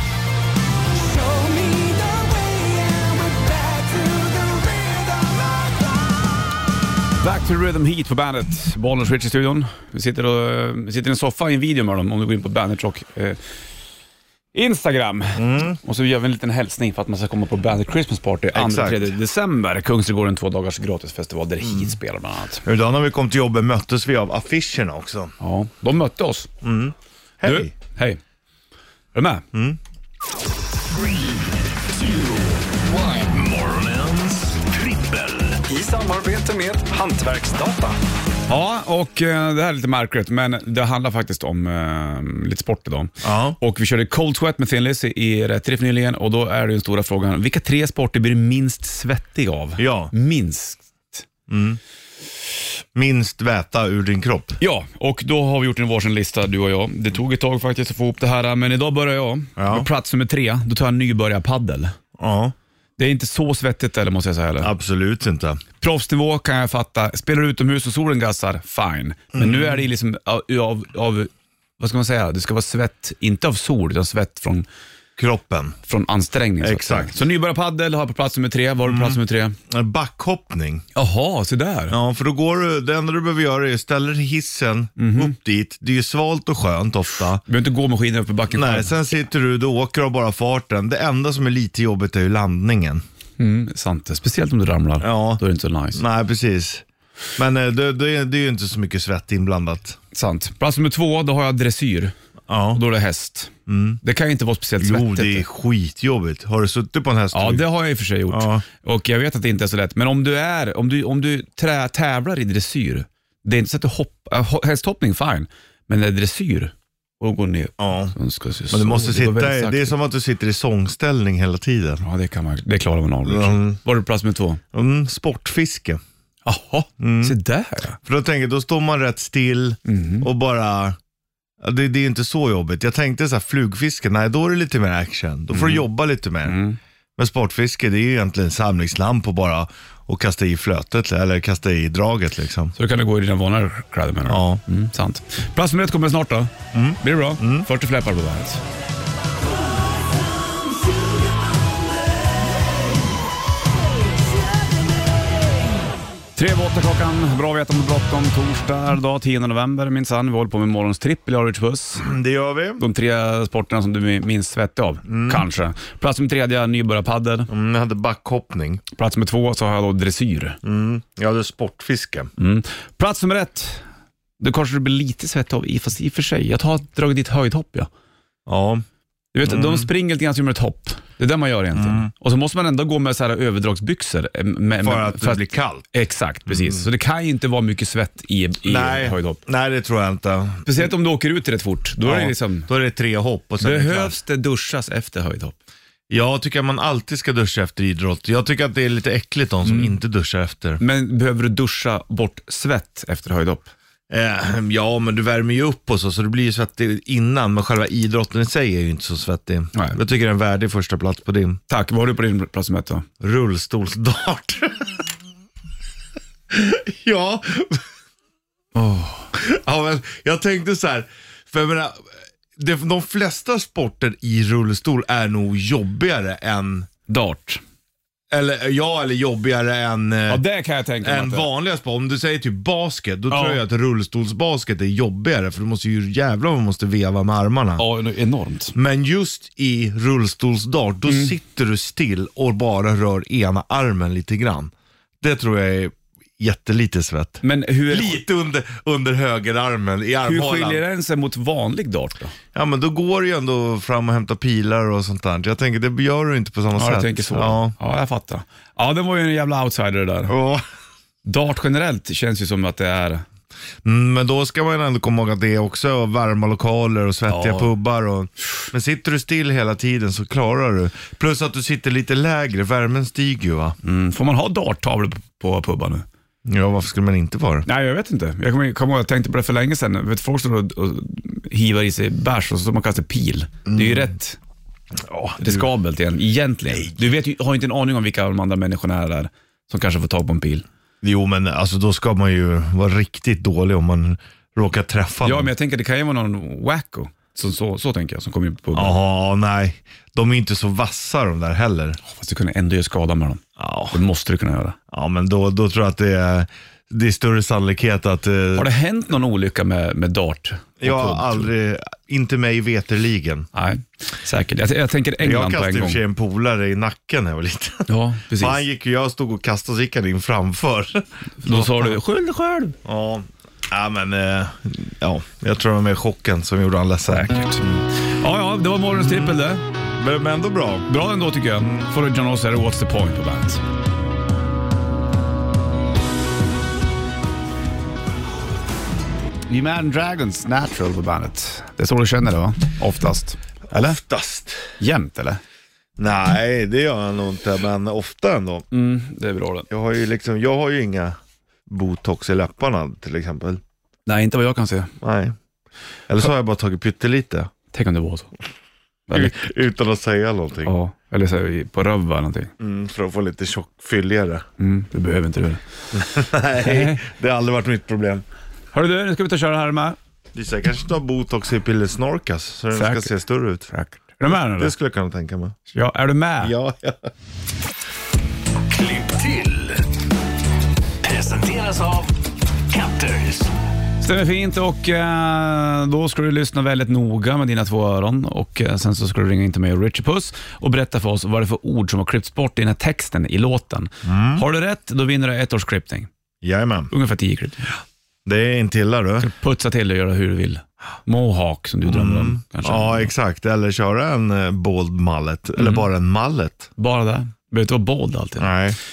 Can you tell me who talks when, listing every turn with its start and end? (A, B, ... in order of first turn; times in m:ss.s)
0:01.0-0:06.0 A
0:07.2-0:13.4 B
0:14.5-0:22.6 B
0:15.4-0:15.8 C
0:18.5-0:19.1 C
0:21.6-0:22.0 C
0:22.6-0:25.3 C
0:25.4-0:26.5 B
0:26.6-0:27.7 C
0:27.4-0:28.2 B
0:29.1-0:29.5 B
0:29.5-0:29.8 C
0:32.0-0:35.6 D
0:35.7-0:37.9 B
0:38.5-0:51.3 B
0:43.2-0:43.6 C
0:49.8-0:50.1 C
0:51.5-0:51.8 C
0:53.0-0:54.6 C
0:54.6-1:01.9 B
0:59.6-0:59.9 C
1:02.2-1:02.5 C
1:03.0-1:04.7 B
1:04.6-1:05.6 C
1:05.8-1:14.7 B
1:09.3-1:09.8 C
1:15.2-1:15.8 C
1:15.9-1:19.6 B
1:16.6-1:17.2 C
1:18.9-1:19.2 C
1:19.7-1:20.8 C
1:21.0-1:22.0 B
1:21.9-1:27.4 C
1:25.0-1:25.4 B
1:27.5-1:29.0 B
1:28.5-1:33.0 C
1:33.4-1:36.0 B
1:35.0-1:35.4 C
1:36.0-1:36.8 C
1:37.4-1:40.0 C
1:40.1-1:42.1 B
1:42.5-1:42.8 C
1:42.7-1:43.5 B
1:43.7-1:44.0 C
1:44.0-1:45.4 B
1:44.8-1:47.7 C
1:47.3-2:00.0 B
1:48.3-1:48.6 C
1:57.8-1:58.2 C
1:58.7-2:02.0 C
2:02.0-2:04.6 B
2:03.2-2:03.8 C
2:04.7-2:06.0 C
2:06.5-2:08.0 B
2:07.0-2:07.4 C
2:08.0-2:11.0 C
2:09.9-2:10.3 B
2:11.6-2:16.6 C
2:15.5-2:15.9 B
2:16.4-2:16.8 B
2:17.2-2:22.7 C
2:22.8-2:28.6 B
2:24.3-2:24.6 C
2:26.7-2:27.7 C
2:36.4-2:42.1 B
2:42.0-2:42.8 C
2:42.8-2:47.5 B
2:45.1-2:45.5 C
2:47.5-2:48.8 C
2:49.0-2:50.6 B
2:50.6-2:52.3 C
2:52.4-2:53.8 B
2:54.4-2:57.9 B
2:58.5-2:58.8 C
2:59.3-3:09.4 B
2:59.4-2:59.9 C
3:01.8-3:02.1 C
3:04.8-3:05.9 C
3:06.5-3:06.8 C
3:08.6-3:10.8 C
3:10.6-3:12.7 B
3:12.0-3:14.2 C
3:13.6-3:15.6 B
3:16.1-3:20.8 C
3:19.6-3:19.9 B
3:20.8-3:23.7 B
3:24.1-3:31.6 C
3:31.7-3:33.1 B
3:33.2-3:35.0 C
3:36.5-3:37.8 C
3:38.8-3:39.3 B
3:39.3-3:46.9 C
3:47.1-3:47.6 B
3:48.3-3:50.4 C
3:50.3-3:51.5 B
3:51.0-3:57.8 C
3:53.3-3:53.6 B
3:57.8-3:58.8 B
3:58.8-4:10.8 C
4:01.1-4:01.3 B
4:07.4-4:08.2 B
4:10.2-4:12.3 B
4:12.5-4:17.8 C
4:16.8-4:20.3 B
4:20.3-4:20.6 C
4:21.2-4:23.2 B
4:23.8-4:33.8 C
4:27.3-4:27.7 B
4:33.8-4:36.1 B
4:36.5-4:37.7 C
4:37.7-4:44.4 B
4:43.7-4:44.1 C
4:45.1-4:45.6 C
4:45.4-4:50.7 B
4:51.0-4:55.5 C
4:55.2-4:59.0 B
4:58.7-5:02.0 C
5:02.1-5:04.8 B
5:03.6-5:04.0 C
5:04.9-5:08.7 C
5:08.6-5:11.5 B
5:10.8-5:13.5 C
5:13.5-5:16.0 B
5:15.2-5:22.0 C
5:17.9-5:18.6 B
5:21.4-5:22.8 B
5:22.8-5:27.8 C
5:27.1-5:27.6 B
5:28.2-5:29.6 B
5:29.0-5:29.4 C
5:30.0-5:30.9 C
5:30.9-5:33.6 B
5:39.5-5:44.0 B
5:43.7-5:44.7 C
5:44.8-5:45.4 B
5:46.0-5:48.6 C
5:48.7-5:49.7 B
5:49.7-5:53.6 C
5:54.1-5:54.9 B
5:55.0-5:55.4 C
5:56.1-5:57.5 C
5:57.7-5:58.3 B
5:59.1-5:59.4 B
5:59.1-6:00.7 C
6:00.6-6:02.5 B
6:02.6-6:04.4 C
6:04.6-6:07.0 B
6:05.9-6:08.2 C
6:08.7-6:10.0 B
6:10.3-6:13.7 C
6:12.7-6:13.1 B
6:13.7-6:14.7 B
6:14.3-6:15.6 C
6:15.7-6:16.5 B
6:16.4-6:17.1 C
6:18.7-6:19.8 D
6:21.0-6:22.1 D
6:22.7-6:23.5 D
6:24.0-6:36.1 B
6:34.0-6:34.4 C
6:36.4-6:36.9 C
6:36.9-6:37.7 B
6:38.2-6:39.3 C
6:39.2-6:43.1 B
6:41.8-6:46.7 C
6:45.6-6:45.8 B
6:46.8-6:48.5 B
6:48.4-6:48.8 C